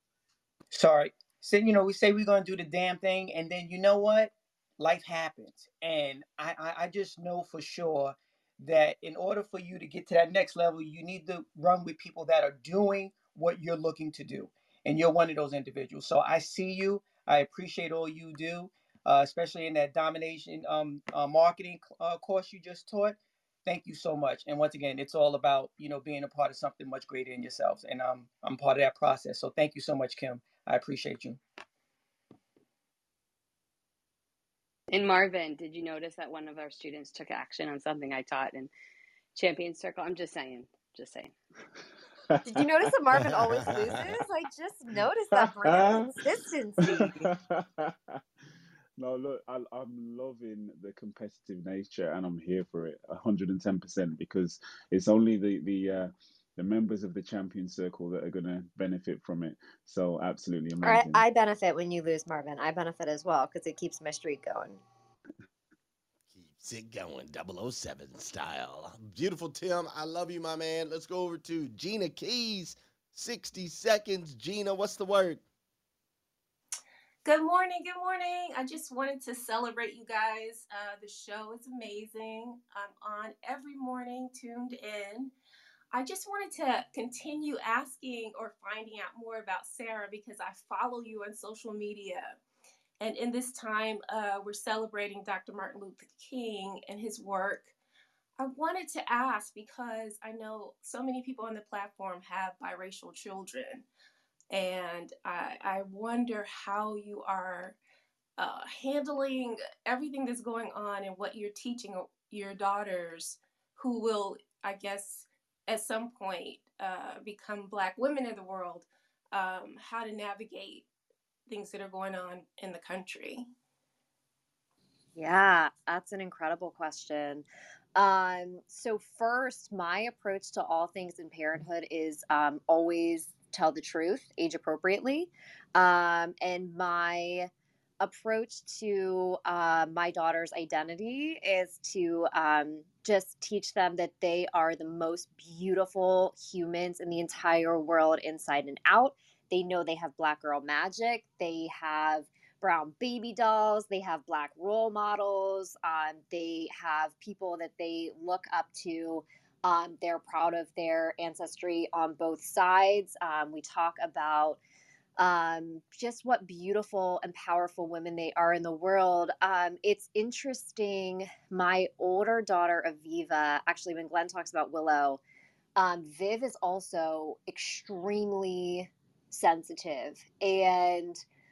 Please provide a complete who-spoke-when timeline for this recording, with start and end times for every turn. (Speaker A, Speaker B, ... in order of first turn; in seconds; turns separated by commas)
Speaker A: 0.7-31.4, Speaker B: 34.9-38.7, Speaker B: 39.3-41.3, Speaker C: 42.4-42.9, Speaker D: 42.5-47.2, Speaker C: 45.3-46.1, Speaker C: 46.8-48.2, Speaker C: 49.0-61.2, Speaker D: 60.8-64.8, Speaker E: 66.3-75.4, Speaker F: 77.2-85.3, Speaker F: 85.9-92.4, Speaker F: 93.0-97.7, Speaker F: 98.4-103.8, Speaker F: 104.5-107.8, Speaker F: 108.4-120.9, Speaker F: 121.5-123.5, Speaker D: 125.1-164.6, Speaker D: 165.2-175.2, Speaker D: 175.8-181.2